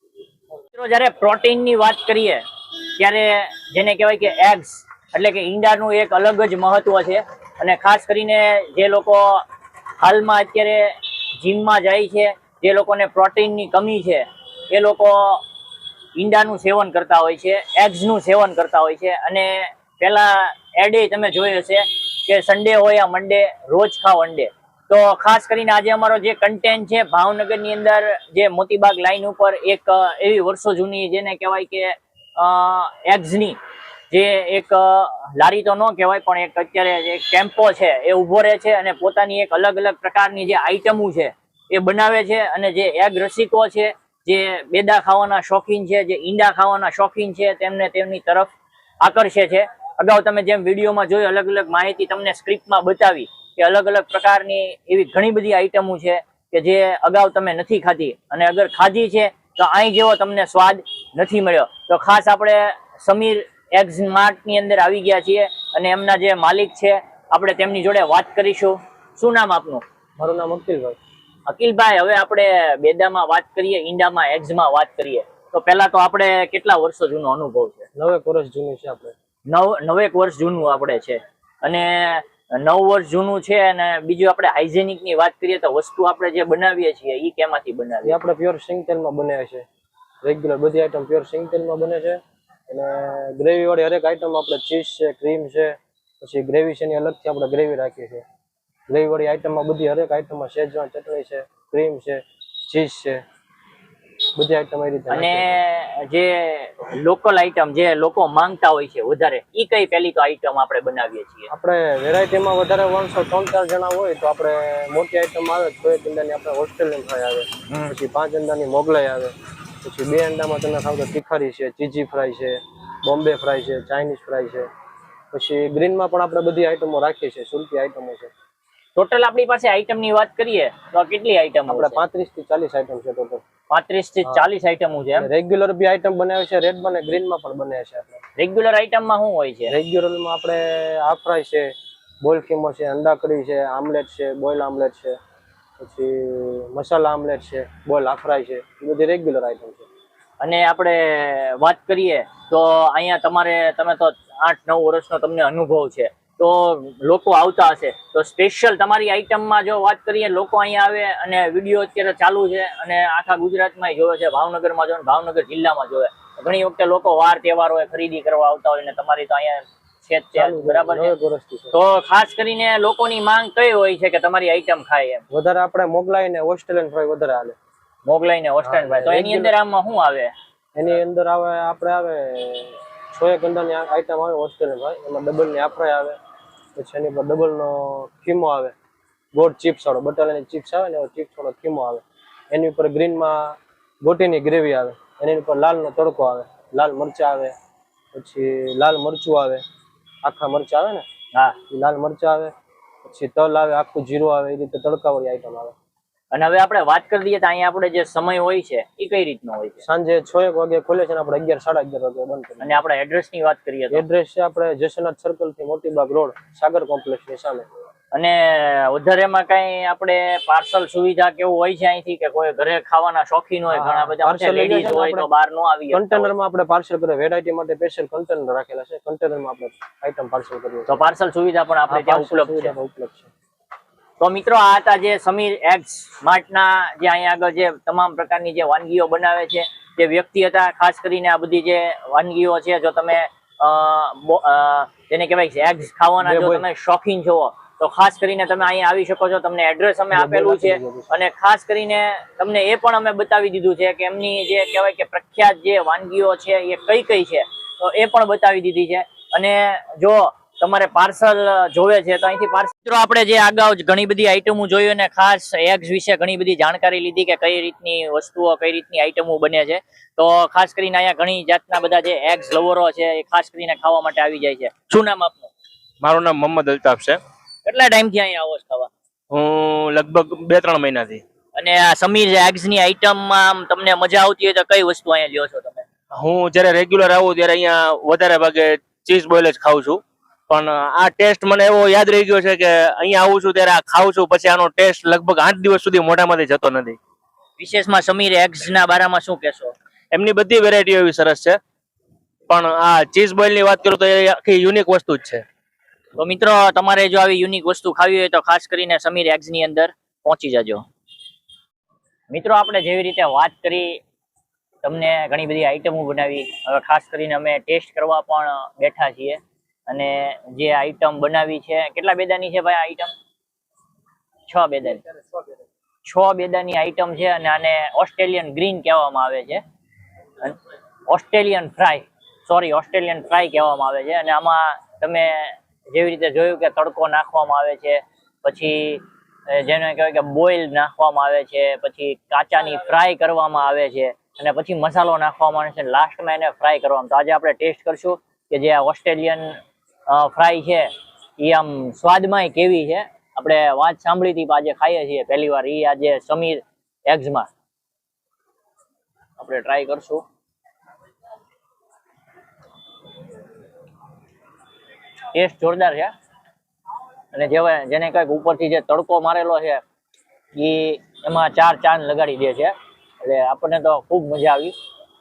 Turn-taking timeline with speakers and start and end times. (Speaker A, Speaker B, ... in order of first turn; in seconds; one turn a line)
Speaker A: 0.7-9.4
Speaker A: 10.0-15.4
Speaker A: 16.1-33.6
Speaker A: 34.1-69.8
Speaker B: 70.2-71.0
Speaker A: 71.5-77.9
Speaker B: 78.0-79.1
Speaker A: 79.5-88.2
Speaker B: 88.0-89.7
Speaker B: 90.2-98.2
Speaker B: 98.9-103.2
Speaker B: 104.3-105.4
Speaker A: 105.1-111.5
Speaker B: 111.5-124.7
Speaker A: 117.7-118.0
Speaker B: 125.3-128.3
Speaker A: 128.9-132.0
Speaker B: 131.7-133.4
Speaker A: 133.7-135.3
Speaker B: 135.2-138.2
Speaker A: 138.4-139.7
Speaker B: 139.7-145.2
Speaker B: 145.8-149.9
Speaker A: 150.4-171.1
Speaker B: 170.3-171.8
Speaker A: 171.7-175.2
Speaker B: 175.3-177.6
Speaker A: 178.0-180.3
Speaker B: 178.6-179.5
Speaker B: 180.7-186.2
Speaker B: 186.8-188.7
Speaker B: 189.3-197.5
Speaker B: 198.1-199.6
Speaker B: 200.2-201.0
Speaker B: 201.7-202.5
Speaker B: 203.0-205.7
Speaker A: 206.3-209.8
Speaker B: 209.8-212.8
Speaker A: 212.6-214.0
Speaker B: 213.9-217.7
Speaker A: 218.1-226.3
Speaker B: 223.7-225.3
Speaker B: 225.9-231.0
Speaker A: 230.9-232.7
Speaker B: 231.9-233.3
Speaker A: 234.2-275.5
Speaker B: 246.2-246.7
Speaker B: 250.1-251.2
Speaker C: 276.0-277.2
Speaker A: 277.6-278.9
Speaker C: 279.3-281.2
Speaker A: 281.5-285.9
Speaker C: 286.1-297.0
Speaker A: 297.6-299.7
Speaker C: 300.1-301.6
Speaker C: 302.5-305.4
Speaker A: 306.1-310.8
Speaker A: 312.3-314.0
Speaker A: 314.8-323.1
Speaker A: 324.5-325.0
Speaker A: 326.0-329.6
Speaker A: 331.1-357.5
Speaker A: 359.4-360.2
Speaker A: 365.3-366.1
Speaker A: 367.3-369.8
Speaker A: 370.5-374.7